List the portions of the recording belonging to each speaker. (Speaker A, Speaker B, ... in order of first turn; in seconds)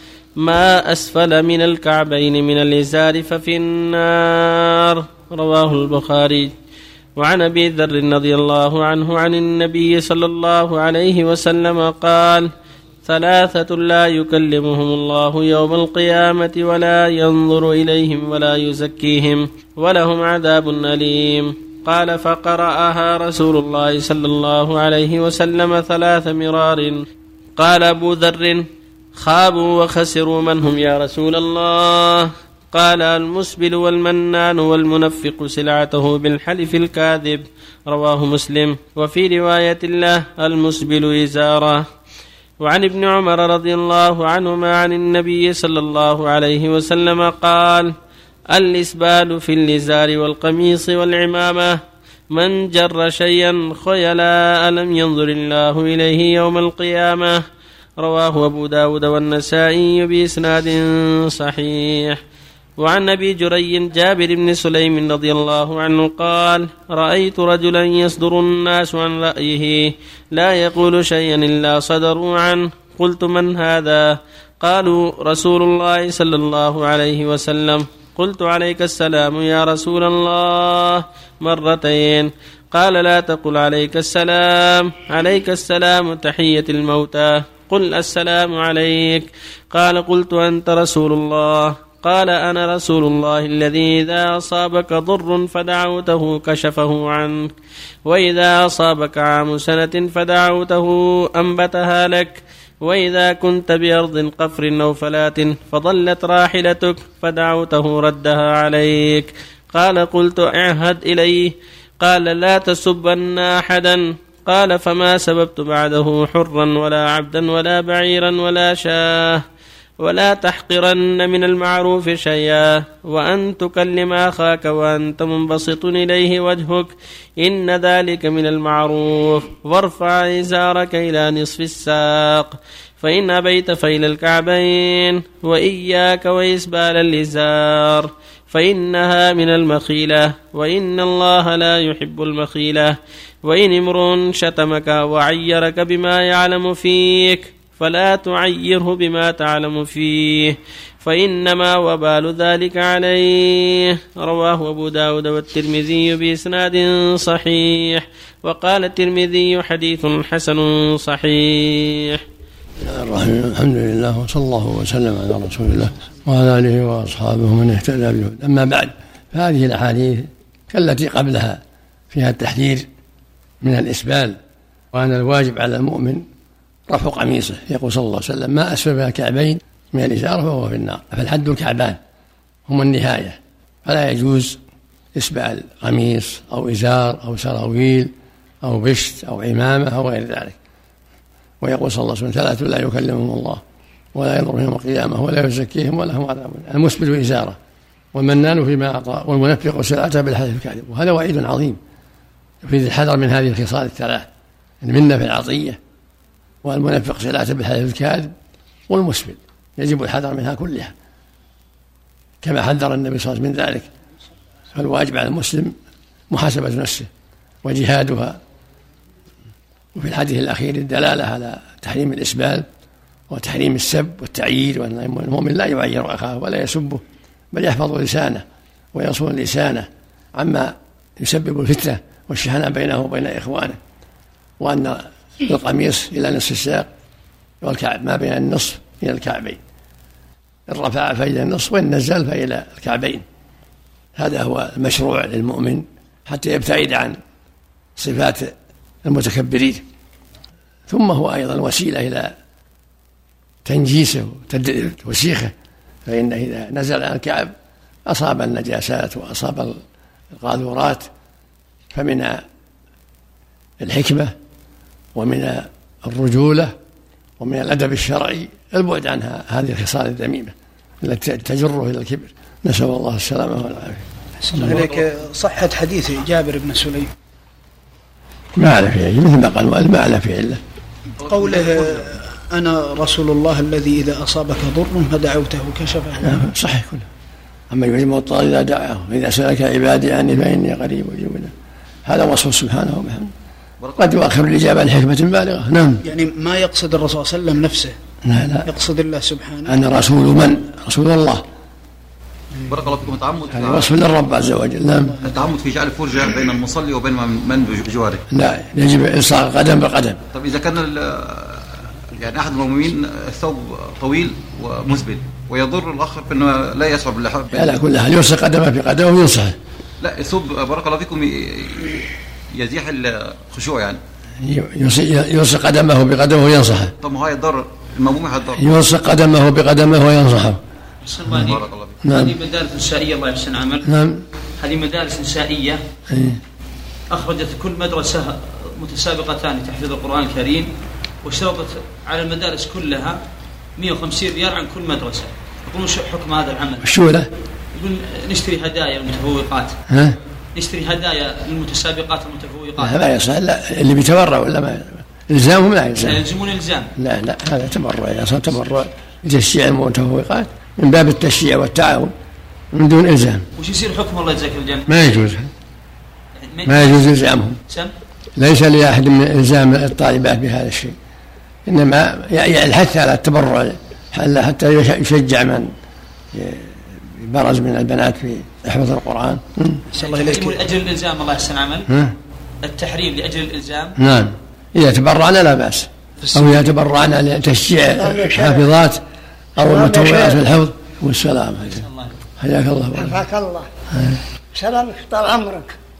Speaker A: 0.4-6.5, 7.2-12.5, 13.0-27.0, 27.6-28.6, 29.2-41.8, 42.6-47.9, 48.5-51.8, 52.3-57.4, 58.0-62.2, 62.8-97.5, 98.0-119.4, 120.0-162.2
Speaker B: 162.8-172.9, 173.6-174.4, 174.9-176.2, 176.9-182.0, 182.7-184.6, 185.1-190.6, 191.6-193.6, 194.1-197.6, 198.1-201.8, 202.6-204.3, 204.8-205.8, 206.6-208.3, 208.9-210.9, 212.4-213.9, 214.7-215.8, 216.3-217.1, 217.6-218.4, 219.9-222.7, 223.3-233.8, 234.6-236.9, 237.6-239.6, 240.7-243.2, 244.2-247.2, 247.9-249.8, 250.9-252.3, 253.6-255.5, 256.1-257.5, 258.1-259.8, 260.3-261.1, 261.9-262.4, 263.8-264.3, 265.1-266.7, 267.4-274.0, 274.5-274.8, 278.6-280.6, 286.2-287.1, 287.7-291.5, 292.1-293.3, 294.0-296.0, 298.2-298.7, 299.7-301.4, 303.5-305.2, 308.3-310.2, 317.5-319.6, 324.4-326.9, 328.6-330.6, 332.0-332.3, 333.8-334.2, 336.1-336.4, 346.8-347.3, 349.9-350.2, 352.8-356.2, 356.9-362.1, 362.7-363.4, 364.9-365.5, 366.6-367.6, 368.4-370.9, 371.6-375.7, 376.3-379.8, 381.9-382.1, 384.0-389.0, 389.6-391.8, 392.4-393.2, 393.9-394.2
Speaker C: 274.4-277.1, 281.2-286.4, 296.0-297.9, 298.6-299.8, 379.9-380.6, 386.3-386.6
Speaker D: 274.7-274.9, 281.2-282.1, 293.8-294.2, 302.7-303.9, 305.2-308.2, 310.3-317.8, 320.0-324.0, 327.0-328.7, 331.3-332.0
Speaker E: 331.0-333.9, 334.6-335.8, 337.1-340.7, 341.2-343.2, 343.8-346.9, 347.7-349.7, 350.5-353.0, 356.0-356.9, 363.6-364.9, 366.4-367.1, 380.0-381.9, 382.6-384.0, 391.7-392.1
Speaker F: 388.0-388.7, 389.6-390.4, 392.9-393.7, 394.5-395.7